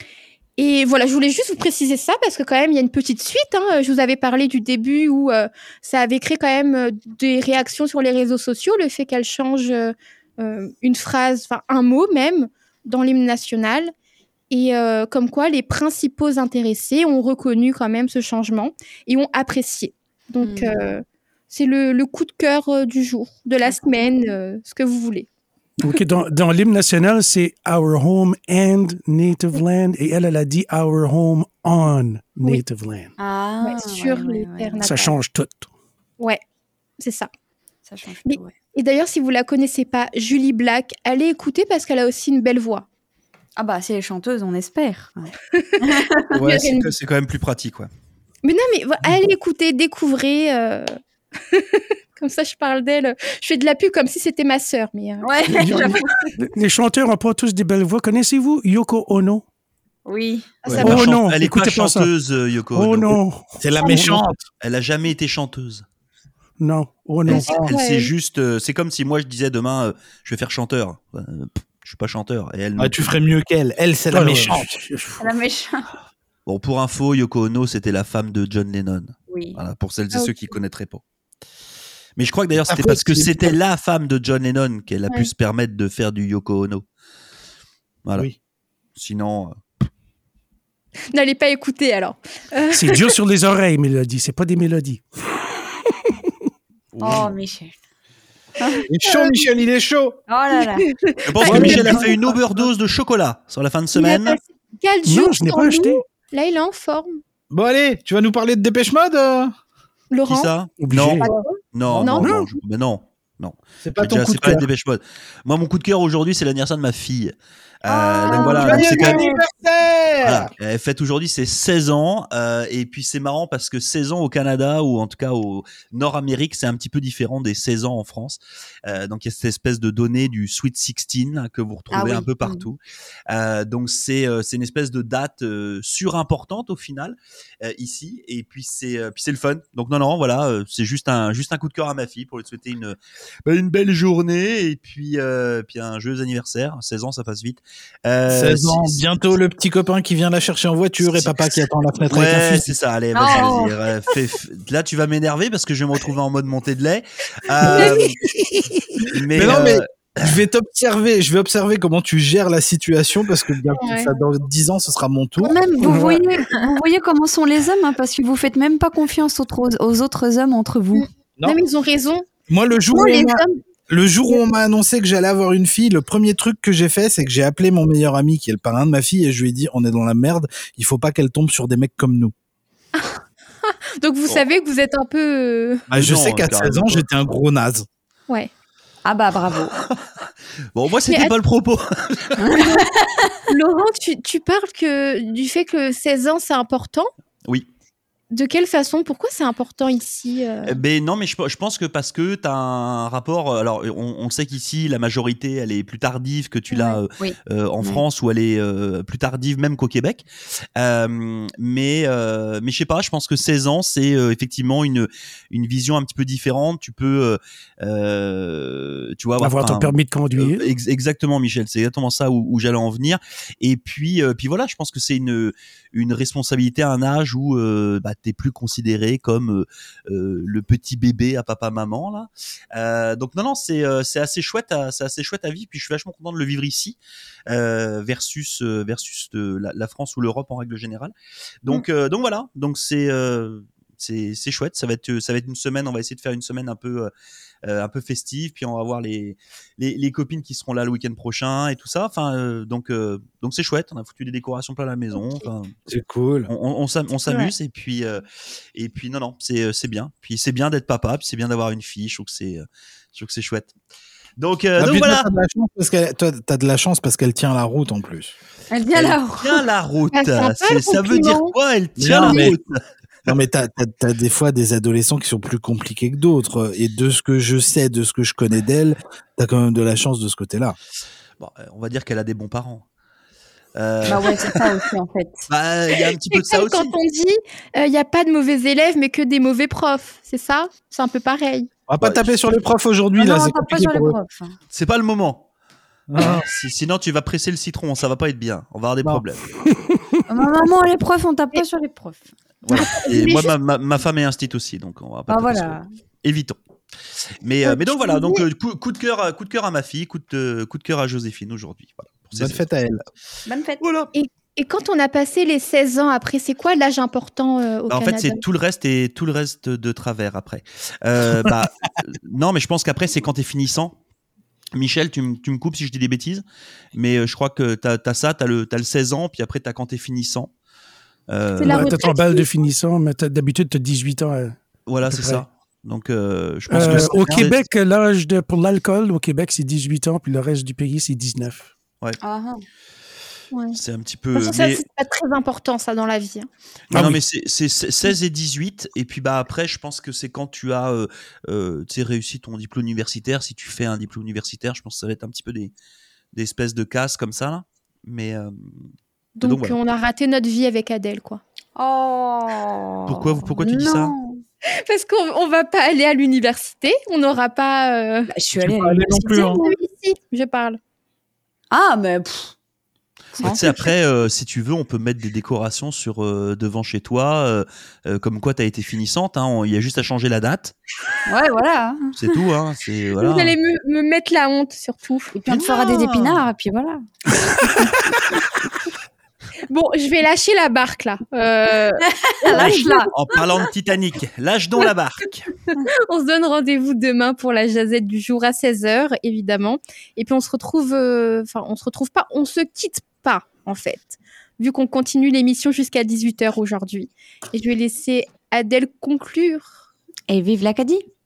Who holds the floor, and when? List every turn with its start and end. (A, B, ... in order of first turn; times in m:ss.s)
0:00.6-0:13.9 A
0:14.5-0:25.3 A
0:20.4-0:20.9 B
0:23.6-0:24.1 B
0:25.8-0:33.1 C
0:33.2-0:35.0 B
0:33.6-0:35.1 A
0:34.8-0:35.7 C
0:37.0-0:37.3 A
0:37.8-0:38.5 B
0:38.2-0:42.8 A
0:43.6-0:46.5 B
0:45.5-0:46.9 A
0:46.3-0:47.9 D
0:48.4-0:50.9 A
0:51.5-0:55.3 A
0:55.2-0:56.2 B
0:55.5-0:59.4 C
1:00.0-1:00.6 B
1:00.6-1:01.1 A
1:00.6-1:01.0 E
1:00.7-1:02.1 C
1:00.8-1:03.2 D
1:02.7-1:04.2 C
1:03.6-1:04.4 E
1:04.6-1:05.8 D
1:06.6-1:07.6 C
1:07.3-1:08.1 A
1:07.3-1:13.1 D
1:12.8-1:14.7 E
1:14.1-1:15.2 C
1:15.2-1:15.9 B
1:16.4-1:21.0 D
1:19.3-1:19.6 B
1:22.2-1:26.8 D
1:22.6-1:23.6 E
1:29.0-1:29.6 D
1:31.1-1:33.1 A
1:32.7-1:36.1 C
1:36.9-1:37.3 D
1:37.0-1:37.8 B
1:38.6-1:38.9 B
1:38.9-1:40.2 E
1:39.0-1:39.5 A
1:40.3-1:40.9 B
1:40.6-1:42.3 A
1:41.2-1:44.4 D
1:41.4-1:42.2 E
1:41.5-1:41.9 B
1:43.9-1:47.2 A
1:45.0-1:46.0 C
1:47.5-1:49.5 E
1:50.1-1:50.5 A
1:50.2-1:59.2 D
1:50.8-1:51.3 C
1:51.2-1:52.4 A
1:51.3-1:52.2 E
1:52.2-1:52.5 C
1:53.8-1:54.6 E
1:57.9-1:59.4 B
1:58.4-2:00.5 E
2:00.2-2:29.3 D
2:11.9-2:12.7 B
2:28.3-2:32.7 E
2:31.0-2:31.5 D
2:32.1-2:38.2 D
2:33.1-2:33.8 B
2:37.7-2:38.0 E
2:37.7-2:38.0 A
2:39.1-2:40.4 D
2:39.3-2:45.6 E
2:43.8-2:44.1 A
2:45.4-2:51.0 B
2:45.8-2:46.2 C
2:50.9-2:52.3 A
2:52.5-3:02.3 E
2:52.9-2:53.6 A
3:04.0-3:05.8 A
3:05.9-3:07.8 E
3:05.9-3:07.0 D
3:09.0-3:09.7 B
3:09.8-3:10.1 D
3:10.7-3:12.6 D
3:11.1-3:11.3 A
3:12.4-3:13.3 B
3:13.5-3:17.1 A
3:18.3-3:20.8 A
3:20.6-3:30.2 D
3:26.7-3:27.0 A
3:27.2-3:28.0 B
3:30.8-4:07.1 D
3:39.4-3:40.7 C
4:07.6-4:15.7 D
4:15.9-4:16.5 E
4:16.5-4:18.2 D
4:17.2-4:17.5 A
4:18.7-4:23.7 D
4:24.4-4:25.3 D
4:24.8-4:28.3 E
4:28.7-4:29.6 B
4:28.9-4:32.8 D
4:30.1-4:31.5 A
4:32.0-4:32.6 E
4:32.2-4:32.5 A
4:33.3-4:40.8 E
4:41.4-4:42.8 D
4:43.7-4:44.6 D
4:44.0-4:45.5 B
4:45.5-4:46.9 D
4:46.3-4:51.7 A
4:51.9-4:54.2 E
4:52.0-4:52.4 D
4:53.2-4:54.6 B
4:54.7-4:55.4 D
4:56.1-4:56.4 E
4:56.1-4:59.5 D
4:59.7-5:00.2 C
5:00.3-5:02.3 B
5:02.6-5:06.6 D
5:02.7-5:03.5 A
5:05.3-5:05.8 B
5:07.4-5:12.7 D
5:07.6-5:08.4 A
5:12.4-5:13.0 E
5:13.4-5:13.8 B
5:13.8-5:14.1 D
5:14.1-5:18.4 A
5:17.9-5:23.9 D
5:24.7-5:30.5 D
5:31.3-5:32.0 D
5:31.6-5:32.4 A
5:31.7-5:35.4 C
5:34.8-5:37.6 D
5:36.7-5:41.7 C
5:42.2-5:42.6 B
5:43.7-5:44.8 D
5:44.3-5:46.5 A
5:46.9-5:55.7 D
5:46.9-5:47.2 C
5:56.3-5:58.9 D
5:59.4-6:01.4 A
5:59.4-5:59.8 D
6:01.8-6:04.4 B
6:03.1-6:04.1 D
6:04.9-6:08.3 A
6:08.3-6:09.8 B
6:08.6-6:09.6 E
6:09.3-6:10.8 A
6:11.7-6:12.6 B
6:13.3-6:13.9 B
6:13.4-6:20.8 D
6:21.3-6:22.3 B
6:22.1-6:23.6 D
6:23.2-6:25.3 A
6:25.4-6:27.0 B
6:25.5-6:26.4 D
6:27.4-6:28.2 C
6:29.7-6:33.1 A
6:32.4-6:33.2 B
6:33.1-6:35.5 D
6:35.7-6:49.8 A
6:50.3-6:51.0 B